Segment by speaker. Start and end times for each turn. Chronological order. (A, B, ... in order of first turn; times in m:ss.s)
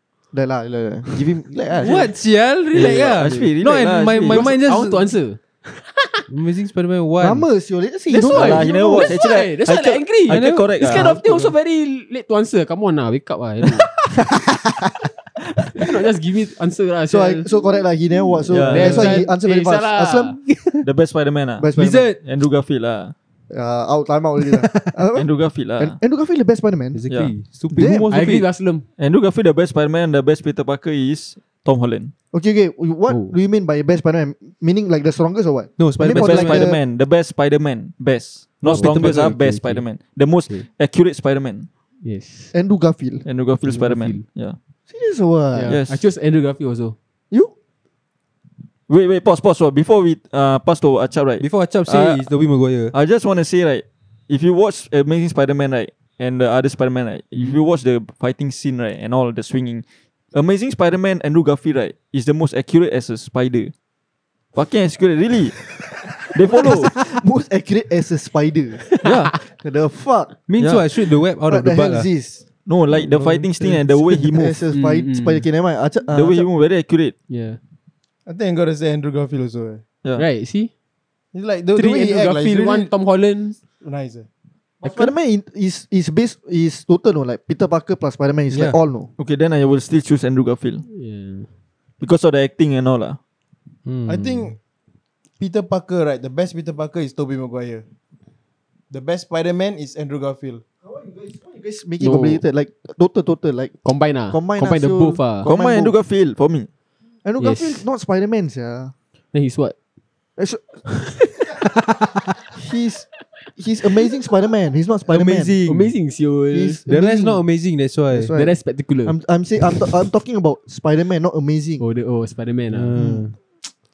0:00.3-0:02.1 A
0:01.8-0:05.1 B
0:02.7-0:04.6 C
0:02.7-0:03.4 D
0:04.3-0:06.3 D
0:06.3-0:07.5 B
0:07.2-0:09.2 A
0:08.1-0:14.0 D
0:08.2-0:11.2 C
0:10.3-0:11.5 B
0:15.7-0:17.5 D
0:17.1-0:20.4 A
0:18.5-0:19.2 C
0:18.6-0:20.4 D
0:18.7-0:19.3 B
0:20.4-0:20.8 B
0:20.8-0:21.7 C
0:21.6-0:22.1 A
0:21.8-0:22.2 B
0:22.2-0:23.1 C
0:23.5-0:27.0 A
0:25.2-0:26.0 C
0:26.9-0:28.5 B
0:27.7-0:28.1 A
0:28.1-0:28.9 D
0:29.0-0:32.1 C
0:32.3-0:36.8 A
0:33.1-0:33.4 D
0:35.8-0:36.7 B
0:36.0-0:41.7 C
0:38.6-0:39.8 B
0:38.7-0:39.6 D
0:42.0-0:42.5 D
0:42.5-0:43.2 A
0:43.2-0:44.6 C
0:43.6-0:44.2 D
0:44.9-0:45.8 A
0:45.5-0:47.0 D
0:45.7-0:46.0 C
0:48.9-0:52.3 C
0:51.4-0:52.9 B
0:52.9-1:03.7 C
1:04.5-1:05.6 C
1:06.3-1:06.9 C
1:06.4-1:08.9 A
1:08.8-1:09.1 D
1:09.0-1:09.4 C
1:09.5-1:10.3 A
1:10.5-1:12.1 B
1:10.6-1:10.8 C
1:11.5-1:12.4 A
1:12.7-1:14.6 C
1:13.0-1:14.1 B
1:14.3-1:16.5 A
1:14.7-1:15.5 D
1:16.1-1:17.1 C
1:17.3-1:17.6 D
1:18.3-1:19.8 E
1:20.2-1:20.7 D
1:21.3-1:22.9 E
1:21.8-1:23.6 D
1:23.8-1:24.3 E
1:24.8-1:29.1 A
1:28.5-1:28.8 B
1:29.2-1:30.8 C
1:30.9-1:31.5 D
1:32.0-1:33.2 C
1:33.9-1:34.5 B
1:34.1-1:34.6 E
1:35.4-1:37.8 E
1:38.9-1:40.6 E
1:40.9-1:46.0 A
1:42.0-1:42.4 D
1:43.8-1:45.5 D
1:45.4-1:46.7 C
1:47.2-1:48.9 A
1:47.4-1:47.8 D
1:49.3-1:49.8 D
1:50.4-1:50.8 A
1:50.9-1:51.5 D
1:52.6-1:55.6 A
1:55.1-1:55.9 B
1:55.6-1:56.8 D
1:56.5-1:57.4 A
1:56.9-1:58.3 B
1:58.1-2:01.8 A
1:58.3-1:59.2 D
1:59.7-2:00.0 D
2:01.8-2:03.0 D
2:02.7-2:03.3 B
2:03.0-2:03.4 A